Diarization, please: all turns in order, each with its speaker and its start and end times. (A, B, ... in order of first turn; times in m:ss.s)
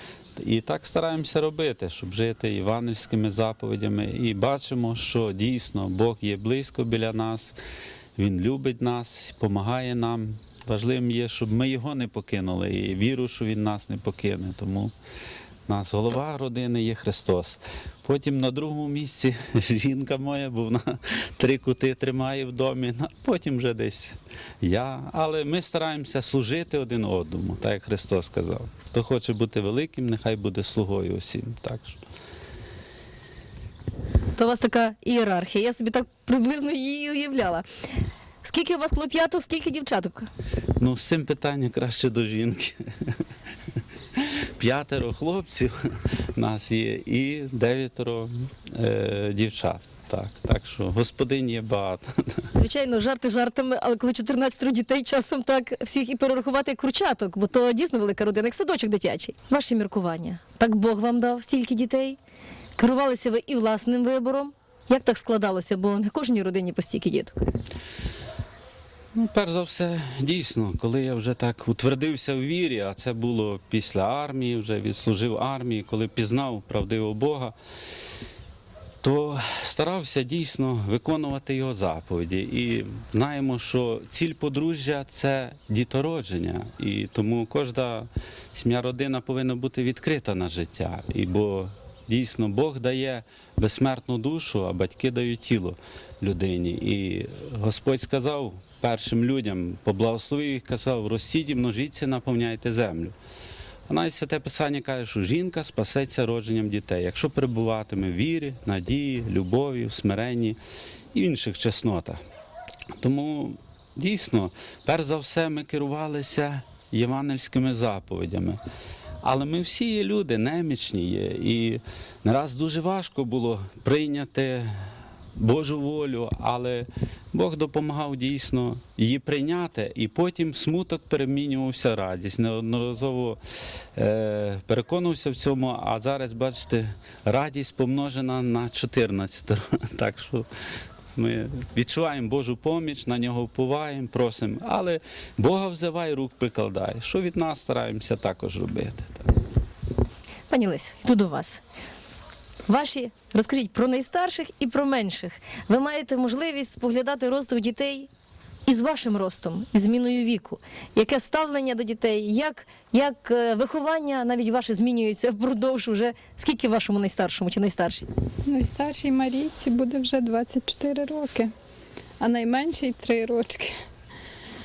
0:00.4-0:07.6 A
0:08.2-0:14.9 A
0:15.7-0:32.0 A
0:34.4-0:37.7 B
0:38.4-0:40.3 B
0:40.8-0:43.2 A
0:44.2-0:52.5 A
0:52.6-1:02.2 B
1:02.8-1:07.4 B
1:09.1-1:17.6 A
1:19.0-1:43.2 A
1:43.9-1:50.6 A
1:51.1-1:52.2 A
1:53.0-1:58.6 A
1:59.2-2:13.4 A
2:14.0-2:20.5 A
2:21.2-2:29.3 A
2:30.5-2:31.6 B
2:32.7-2:38.1 B
2:38.7-2:48.1 B
2:48.5-2:51.5 C
2:52.2-2:53.8 C